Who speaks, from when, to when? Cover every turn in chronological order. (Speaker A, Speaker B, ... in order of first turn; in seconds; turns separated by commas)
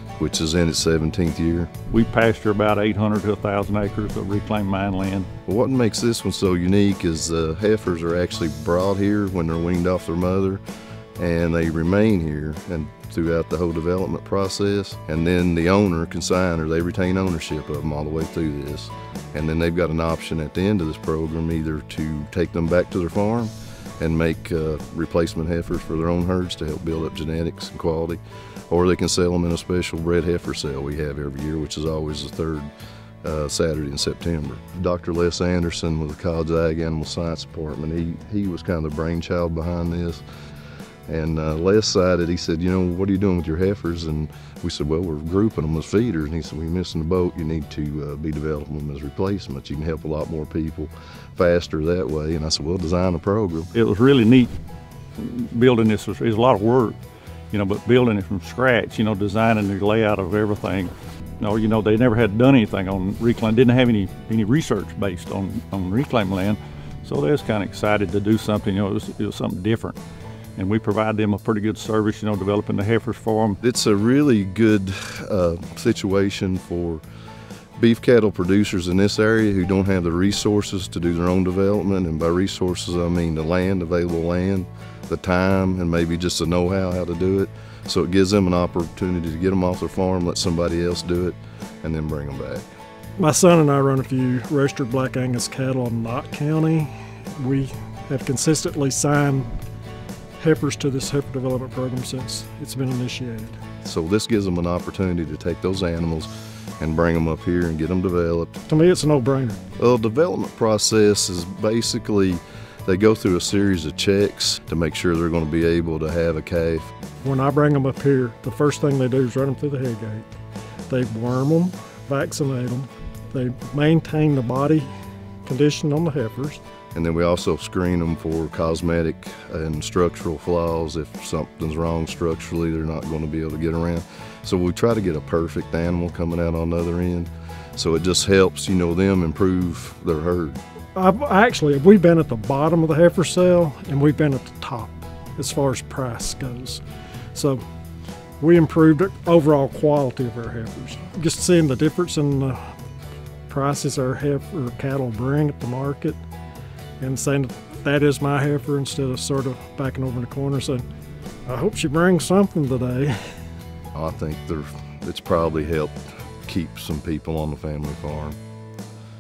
Speaker A: 0.2-1.7, Speaker B: 1.9-5.3, Speaker A: 5.5-10.6, Speaker A: 11.2-32.7, Speaker A: 33.2-40.2, Speaker A: 41.1-53.7, Speaker B: 53.7-54.5, Speaker B: 55.2-57.0, Speaker B: 57.5-70.0, Speaker B: 70.6-73.6, Speaker A: 73.6-77.0, Speaker A: 77.8-92.7, Speaker C: 93.2-99.6, Speaker C: 100.4-103.6, Speaker A: 103.8-106.3, Speaker A: 106.8-108.6, Speaker C: 108.7-109.6, Speaker A: 109.8-116.9, Speaker C: 117.2-120.3, Speaker C: 120.9-124.9, Speaker C: 125.5-126.6, Speaker A: 127.0-140.6, Speaker C: 140.9-146.8, Speaker C: 147.3-147.6, Speaker C: 148.4-152.7, Speaker C: 153.5-156.2, Speaker C: 157.0-160.8, Speaker C: 161.5-163.2, Speaker A: 163.9-168.4